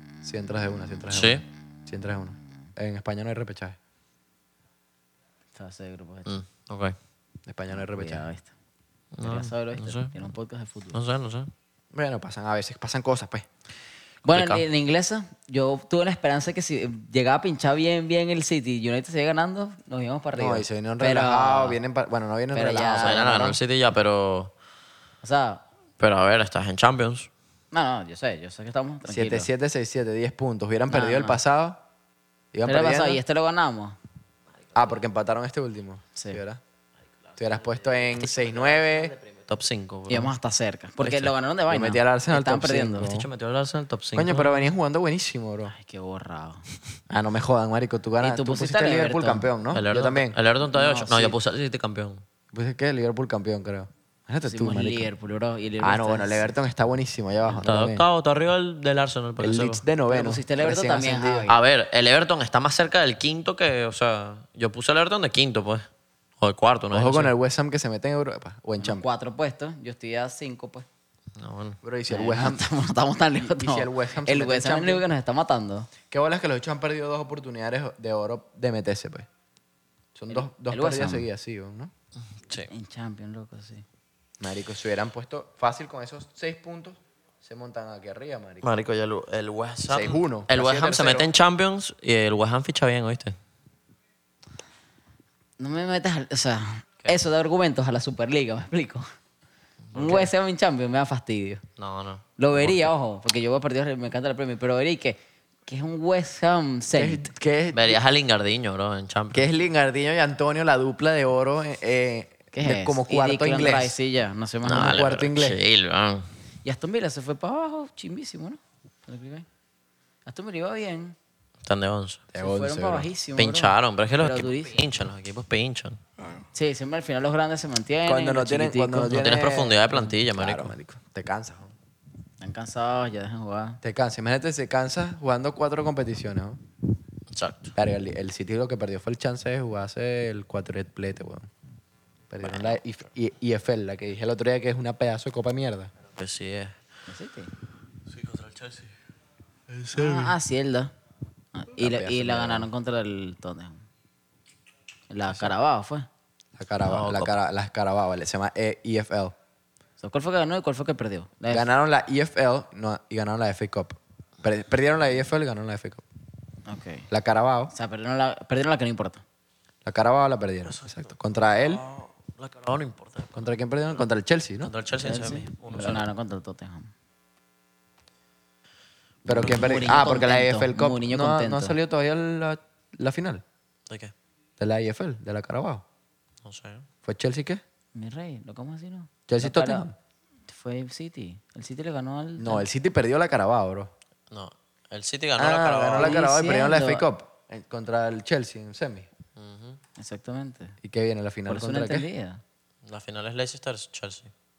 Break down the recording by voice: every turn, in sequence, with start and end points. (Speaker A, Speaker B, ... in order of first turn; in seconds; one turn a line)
Speaker A: 0.2-3.8
Speaker B: 1.1-1.4
Speaker C: 5.5-6.3
Speaker B: 6.3-7.0
Speaker A: 7.5-8.3
Speaker C: 7.7-8.5
Speaker B: 9.1-10.1
Speaker C: 9.2-11.0
Speaker B: 10.9-11.5
Speaker A: 11.9-13.5
Speaker B: 14.2-14.6
Speaker C: 14.3-21.8
Speaker A: 20.4-23.6
Speaker C: 22.5-23.3
Speaker B: 23.0-24.5
Speaker C: 25.2-25.6
Speaker B: 26.0-27.3
Speaker C: 27.7-29.5
Speaker A: 29.1-31.8
Speaker C: 30.9-31.4
Speaker A: 32.5-33.2
Speaker C: 32.6-34.0
Speaker A: 34.7-36.6
Speaker A: 37.4-39.1
Speaker B: 37.6-40.3
Speaker C: 40.1-43.1
Speaker B: 41.0-41.3
Speaker A: 41.7-43.3
Speaker B: 43.0-44.6
Speaker A: 44.1-45.7
Speaker C: 45.7-46.6
Speaker A: 47.1-50.4
Speaker C: 48.2-49.5
Speaker B: 49.7-52.2
Speaker C: 50.7-51.4
Speaker A: 52.5-55.1
Speaker C: 54.4-56.5
Speaker A: 55.8-58.0
Speaker B: 57.6-59.8
Speaker A: 59.4-61.5
Speaker C: 60.1-61.6
Speaker B: 61.5-65.9
Speaker B: 66.4-67.3
Speaker A: 66.9-69.0
Speaker C: 68.8-70.8
Speaker B: 71.4-71.8
Speaker A: 71.8-72.6
Speaker C: 72.1-75.9
Speaker A: 73.3-75.0
Speaker A: 76.1-79.3
Speaker A: 80.1-81.9
Speaker C: 80.3-81.2
Speaker C: 82.7-83.8
Speaker A: 84.4-88.7
Speaker B: 88.6-93.3
Speaker A: 89.9-91.3
Speaker C: 95.6-99.0
Speaker B: 99.9-100.3
Speaker C: 99.9-101.6
Speaker B: 101.8-102.8
Speaker C: 102.4-107.3
Speaker A: 106.9-108.0
Speaker B: 107.7-109.5
Speaker A: 109.3-114.0
Speaker C: 112.5-115.0
Speaker B: 114.6-116.3
Speaker A: 114.7-115.6
Speaker C: 116.6-119.5
Speaker C: 120.2-121.2
Speaker B: 121.6-122.2
Speaker A: 122.3-123.1
Speaker C: 122.4-124.8
Speaker B: 123.3-126.0
Speaker C: 126.5-129.2
Speaker A: 128.1-131.7
Speaker B: 129.1-130.8
Speaker C: 132.4-133.8
Speaker A: 133.8-136.6
Speaker B: 137.3-137.7
Speaker A: 137.8-141.5
Speaker A: 142.3-145.9
Speaker B: 142.4-142.7
Speaker B: 146.2-146.7
Speaker C: 147.1-147.5
Speaker B: 148.1-148.9
Speaker A: 149.8-150.3
Speaker C: 149.9-150.9
Speaker C: 151.5-153.8
Speaker A: 151.8-152.7
Speaker C: 155.1-156.1
Speaker A: 156.6-159.3
Speaker B: 156.8-157.4
Speaker C: 160.0-161.7
Speaker A: 161.5-166.0
Speaker C: 166.7-167.1
Speaker A: 167.1-167.7
Speaker C: 167.7-169.2
Speaker A: 169.8-171.8
Speaker B: 170.7-173.3
Speaker A: 173.3-174.7
Speaker B: 174.6-176.1
Speaker C: 175.0-176.9
Speaker A: 179.2-183.4
Speaker B: 179.3-179.8
Speaker C: 179.3-181.8
Speaker A: 184.6-185.8
Speaker B: 186.4-186.8
Speaker A: 187.0-187.6
Speaker C: 187.9-189.9
Speaker A: 189.3-189.9
Speaker C: 190.5-192.7
Speaker A: 192.4-193.9
Speaker B: 194.3-196.2
Speaker A: 195.4-199.1
Speaker C: 196.0-197.1
Speaker B: 199.4-199.8
Speaker C: 199.9-200.8
Speaker A: 200.8-202.1
Speaker C: 201.5-202.4
Speaker B: 202.8-204.3